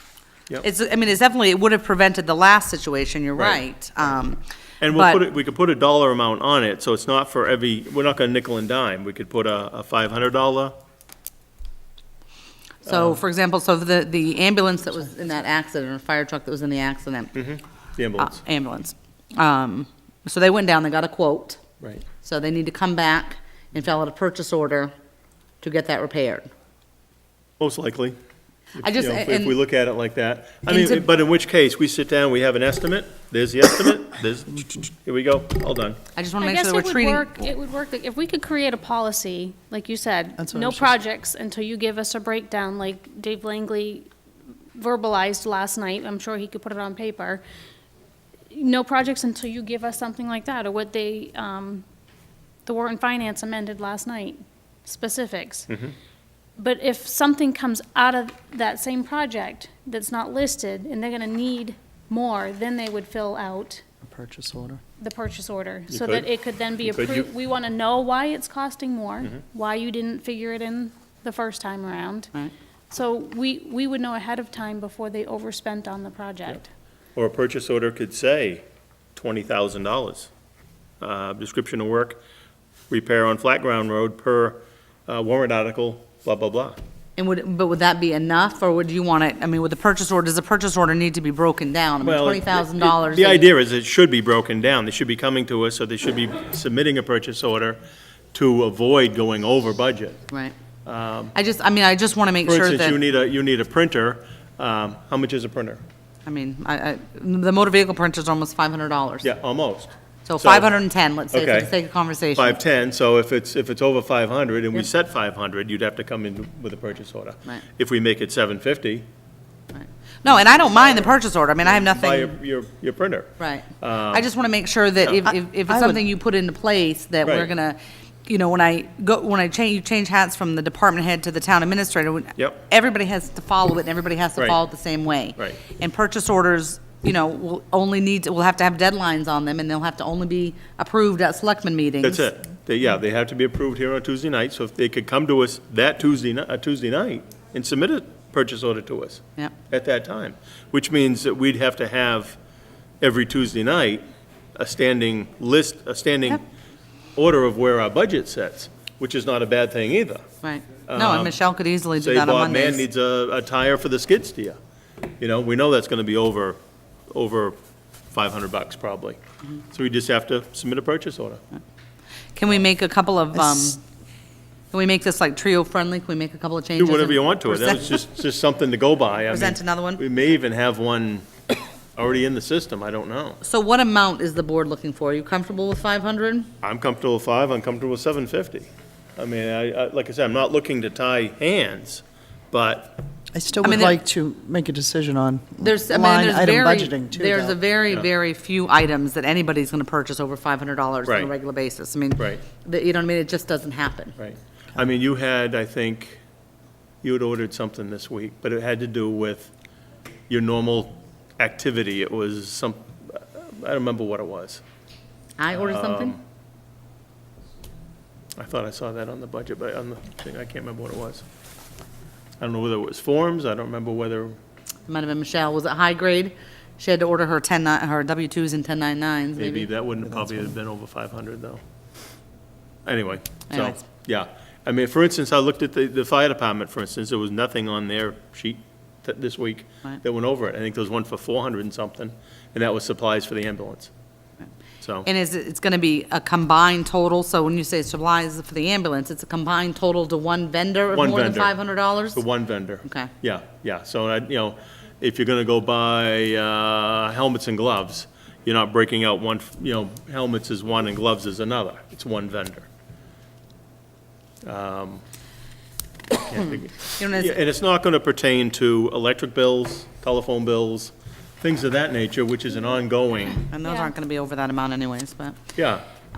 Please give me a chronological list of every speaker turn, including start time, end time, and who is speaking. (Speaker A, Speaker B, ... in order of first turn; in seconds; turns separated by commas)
Speaker A: 0.6-5.2, Speaker B: 3.3-3.6, Speaker B: 4.8-10.8, Speaker A: 12.8-17.3, Speaker B: 12.8-13.2, Speaker B: 17.3-18.4, Speaker A: 18.2-21.6, Speaker A: 22.2-24.9, Speaker A: 25.6-26.5, Speaker B: 27.6-28.2, Speaker B: 28.8-36.0, Speaker A: 28.8-29.6, Speaker A: 30.7-31.1, Speaker A: 36.1-37.3, Speaker C: 36.4-44.1, Speaker D: 40.4-41.0, Speaker C: 44.7-47.4, Speaker C: 48.5-51.8, Speaker C: 52.6-55.7, Speaker B: 55.7-55.9, Speaker C: 56.6-63.8, Speaker D: 64.0-64.8, Speaker C: 65.0-72.3, Speaker B: 65.9-66.3, Speaker B: 66.8-67.3, Speaker C: 72.9-76.6, Speaker B: 77.2-80.3, Speaker B: 81.0-82.2, Speaker B: 82.9-86.8, Speaker A: 87.2-93.5, Speaker B: 92.0-97.8, Speaker B: 98.3-100.2, Speaker B: 100.8-101.3, Speaker A: 101.3-103.0, Speaker B: 102.4-105.8, Speaker A: 106.2-109.3, Speaker B: 109.2-110.7, Speaker A: 110.2-112.6, Speaker B: 111.3-111.7, Speaker B: 112.3-119.0, Speaker A: 119.7-122.4, Speaker B: 120.3-124.2, Speaker A: 123.4-142.3, Speaker D: 125.7-126.0, Speaker B: 127.2-127.5, Speaker B: 142.0-152.4, Speaker B: 153.0-154.0, Speaker B: 154.6-156.4, Speaker B: 157.1-160.2, Speaker A: 160.4-162.8, Speaker B: 160.9-161.3, Speaker B: 162.0-164.6, Speaker B: 165.2-166.6, Speaker B: 167.1-167.6, Speaker B: 168.1-169.2, Speaker B: 169.7-171.4, Speaker A: 172.3-173.8, Speaker D: 173.4-173.7, Speaker A: 174.7-178.0, Speaker B: 176.8-183.4, Speaker A: 179.3-180.0, Speaker A: 183.4-186.5, Speaker B: 186.6-193.0, Speaker D: 193.3-197.6, Speaker A: 193.6-194.0, Speaker A: 195.6-204.2, Speaker B: 201.0-201.3, Speaker B: 202.2-202.4, Speaker B: 204.2-206.2, Speaker B: 207.0-209.5, Speaker B: 210.3-214.6, Speaker A: 215.4-216.2, Speaker B: 215.5-216.2, Speaker B: 218.3-221.2, Speaker B: 222.4-224.4, Speaker A: 224.9-229.7, Speaker B: 229.3-231.6, Speaker B: 232.8-243.9, Speaker A: 233.5-233.8, Speaker B: 244.8-245.1, Speaker A: 245.0-252.2, Speaker B: 250.9-251.6, Speaker B: 252.1-262.7, Speaker A: 252.8-253.1, Speaker B: 264.4-265.0, Speaker B: 266.2-273.4, Speaker A: 267.0-267.3, Speaker A: 273.4-275.4, Speaker C: 273.6-273.9, Speaker B: 275.6-275.8